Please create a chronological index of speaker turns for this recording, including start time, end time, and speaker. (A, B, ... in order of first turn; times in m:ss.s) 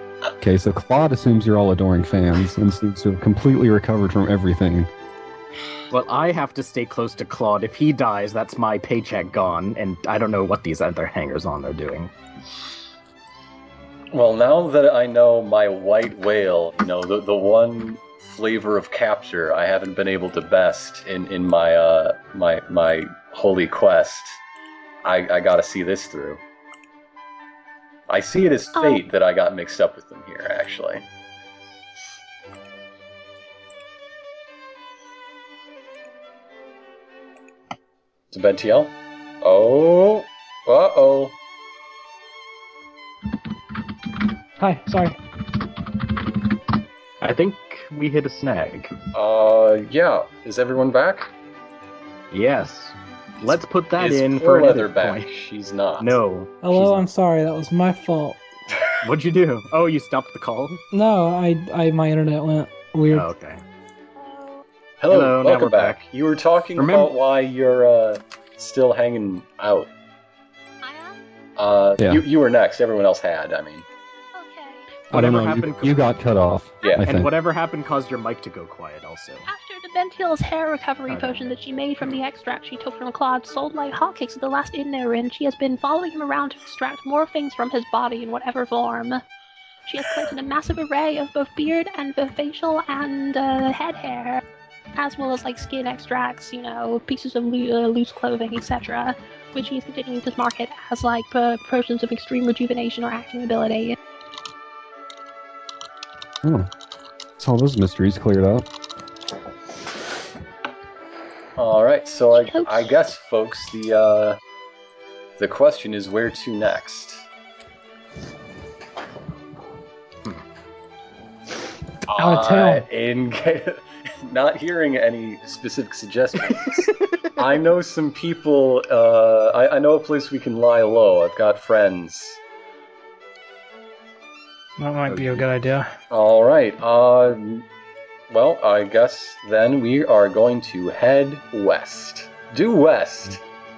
0:00.4-0:04.9 A
0:05.9-0:12.1 B
0:14.1-0:24.4 C
0:25.0-0:26.4 C
0:28.1-0:31.0 C
0:28.8-0:29.0 D
0:38.3-0:41.3 C
0:44.6-0:45.2 E
0:47.2-0:48.9 B
0:49.1-0:51.3 C
0:52.3-0:55.2 B
0:54.0-0:56.1 C
0:56.0-0:57.0 B
0:56.6-0:58.4 E
0:59.0-1:00.8 B
1:00.9-1:03.3 E
1:03.1-1:03.6 B
1:04.2-1:04.6 D
1:05.0-1:09.9 C
1:05.1-1:06.0 B
1:06.8-1:07.1 B
1:10.8-1:11.2 D
1:11.6-1:13.8 C
1:14.3-1:14.9 D
1:15.1-1:17.3 A
1:15.1-1:16.1 B
1:17.0-1:19.4 B
1:19.4-1:29.2 D
1:21.1-1:21.5 B
1:29.8-1:34.4 D
1:35.0-1:44.0 D
1:46.4-1:46.7 A
1:47.4-1:48.6 A
1:51.6-1:54.4 C
1:52.4-1:52.7 D
1:55.4-1:57.2 C
2:02.1-2:12.4 C
2:02.1-2:02.8 E
2:14.8-2:15.9 E
2:16.1-2:17.6 C
2:18.3-2:23.4 C